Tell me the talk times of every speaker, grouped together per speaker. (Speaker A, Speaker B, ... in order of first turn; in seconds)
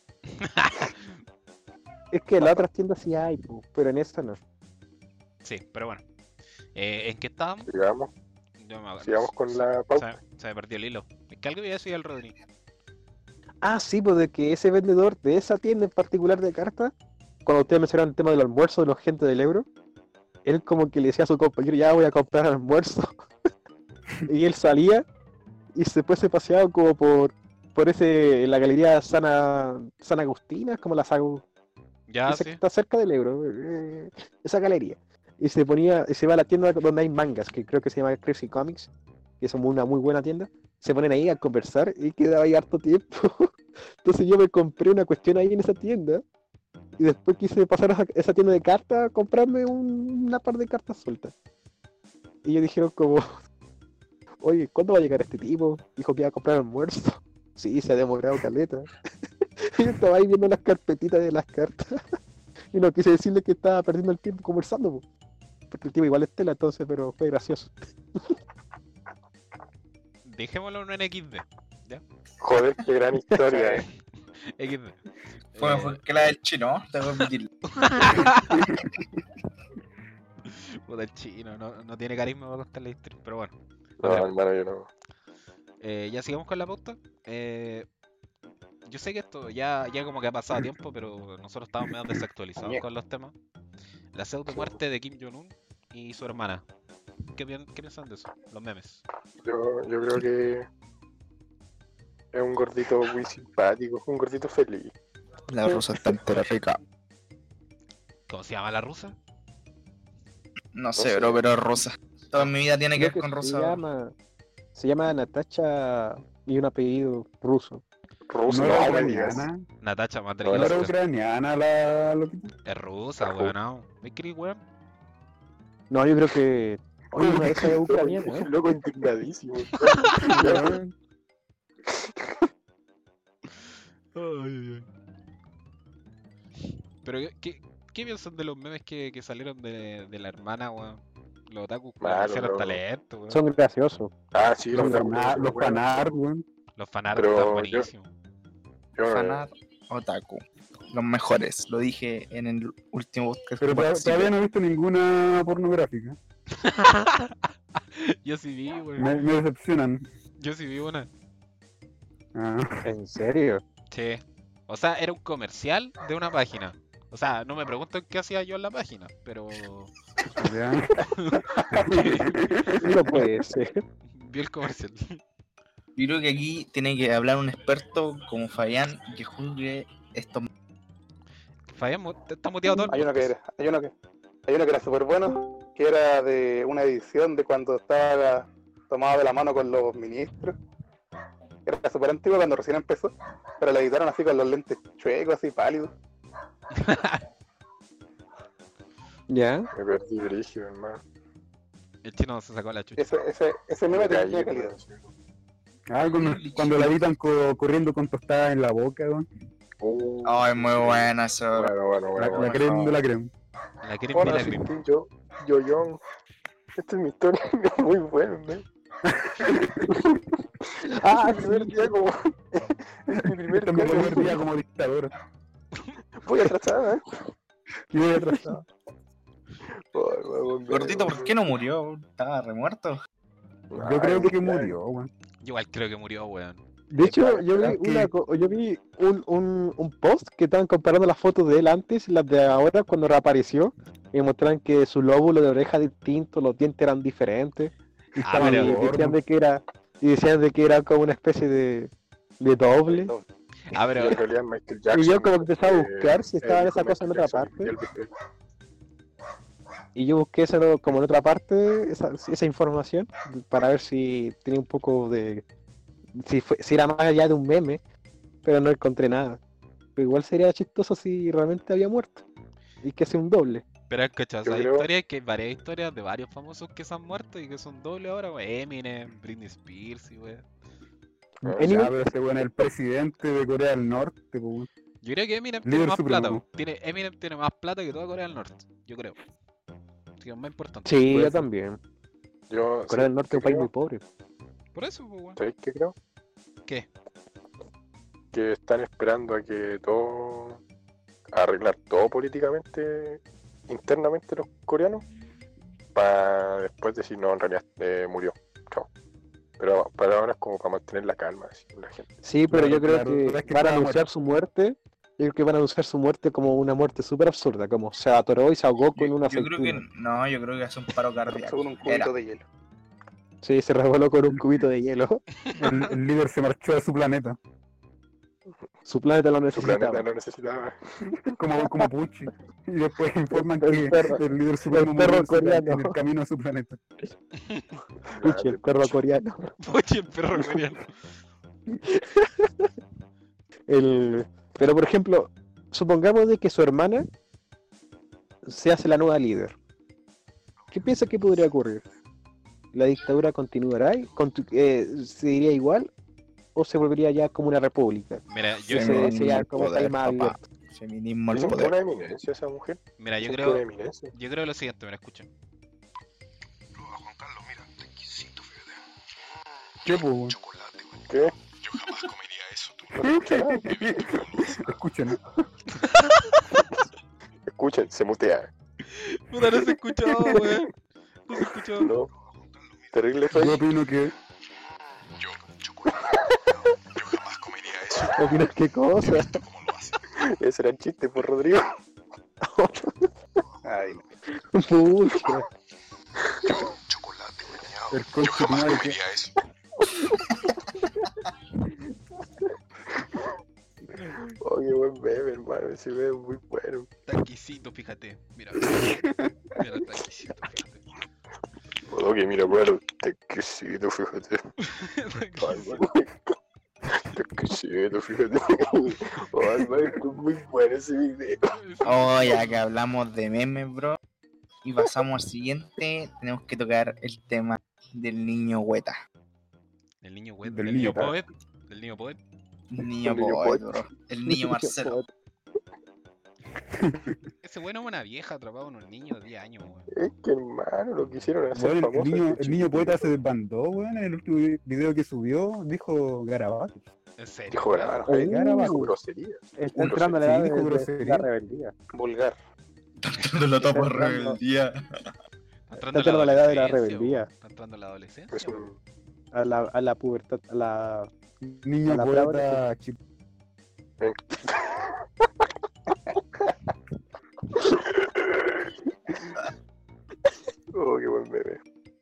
Speaker A: 0.3-1.1, 5.4-6.0, 6.8-7.7, 8.6-12.4, 32.1-32.6, 70.2-72.0, 74.6-75.0, 75.5-76.3, 77.2-78.8, 80.5-84.4, 85.8-87.9, 88.8-93.3, 94.1-96.6, 97.3-99.0, 108.3-109.2, 119.8-120.9, 122.7-124.6, 134.1-134.9, 137.0-143.4, 146.8-148.1, 156.5-159.1, 160.4-161.1, 163.9-169.9, 171.1-172.4, 174.1-175.2, 181.7-183.3, 196.7-197.2, 202.0-203.1, 213.8-214.7, 235.4-236.6, 248.2-248.8, 253.7-254.2, 273.9-280.4, 285.0-289.2, 290.2-291.4, 294.7-295.4, 339.6-340.9, 358.3-359.1, 363.0-365.3, 378.9-380.7, 381.3-381.9, 407.1-410.9, 414.6-415.9, 421.5-422.6, 430.0-432.2, 437.4-439.9, 447.2-448.1, 455.7-458.7
Speaker B: 2.1-4.4, 13.6-16.9, 17.4-19.7, 20.4-23.1, 24.3-25.1, 25.8-31.4, 32.3-38.9, 39.4-46.2, 47.0-51.3, 52.4-53.4, 54.4-58.9, 59.6-62.0, 62.7-65.0, 65.7-68.4, 113.0-114.1, 114.8-117.8, 125.9-128.5, 143.3-144.1, 162.8-163.6, 172.8-173.8, 199.3-199.7, 220.8-221.9, 223.9-224.3, 236.9-247.7, 248.3-253.1, 254.9-257.7, 259.9-265.4, 266.2-267.8, 268.4-269.4, 270.0-272.2, 272.8-273.6, 281.4-281.9, 290.9-291.8, 292.9-294.0, 312.2-319.9, 323.4-325.2, 328.9-330.1, 333.3-336.0, 338.2-339.5, 341.9-342.7, 343.7-347.1, 348.4-349.6, 350.7-351.9, 352.7-355.9, 356.6-360.4, 388.0-389.4, 392.4-393.1, 394.3-395.5, 397.9-398.9, 434.3-435.1, 448.1-448.9, 449.6-451.8, 453.7-454.4, 455.7-457.3, 459.3-461.1, 461.9-462.6
Speaker C: 7.7-8.1, 9.0-10.1, 72.4-73.9, 84.0-84.9, 94.5-94.8, 99.4-100.7, 102.3-104.9, 111.0-111.4, 118.3-119.5, 120.5-120.9, 123.2-123.5, 127.2-130.8, 142.0-142.8, 144.3-146.1, 147.2-147.9, 149.0-149.5, 199.7-201.0, 203.9-205.1, 209.8-212.9, 214.1-216.0, 216.8-218.7, 221.2-222.1, 223.1-224.4, 226.2-227.0, 229.9-231.4, 233.7-234.8, 253.9-258.1, 274.4-274.9, 281.4-281.7, 292.5-293.7, 295.4-295.9, 298.3-300.6, 301.3-305.1, 305.9-308.9, 309.6-312.1, 329.6-330.8, 338.1-339.0, 361.3-364.1, 371.1-371.4, 371.9-372.1, 372.9-374.5, 377.6-378.5, 381.8-382.1, 382.9-383.7, 385.9-386.5, 390.1-391.8, 396.3-396.7, 404.4-406.9, 411.9-414.4, 415.4-416.1, 416.9-421.5, 433.1-433.7, 439.9-443.1, 447.5-450.2, 458.3-458.8, 464.0-464.9, 467.6-468.7, 470.7-471.6
Speaker D: 75.6-77.5, 105.5-106.8, 110.7-113.8, 149.1-154.3, 176.0-180.5, 210.2-211.7, 212.3-213.0, 230.7-233.0, 318.9-322.1, 358.7-361.8, 421.8-424.0, 424.6-429.0, 432.7-435.0, 453.0-455.1
Speaker E: 118.5-119.6, 120.5-122.5, 130.2-130.9, 144.7-146.4, 153.6-156.2, 159.0-160.1, 162.3-162.8, 170.4-173.2, 205.9-209.3, 212.2-213.3, 219.1-220.0, 223.1-225.1, 227.9-228.6, 233.8-235.1, 237.5-238.1, 248.2-249.2, 281.6-284.7, 285.6-286.4, 312.5-314.1, 325.6-327.4, 331.4-336.8, 369.8-370.4, 373.0-375.2, 383.3-384.1, 397.9-399.0, 430.4-431.1, 436.7-437.2, 441.6-446.9, 448.2-448.8, 449.8-451.3, 461.4-463.0
Speaker F: 182.9-183.9, 184.5-190.6, 191.7-195.9, 203.0-204.8, 252.8-253.2, 321.3-322.4, 393.7-394.0, 451.9-452.4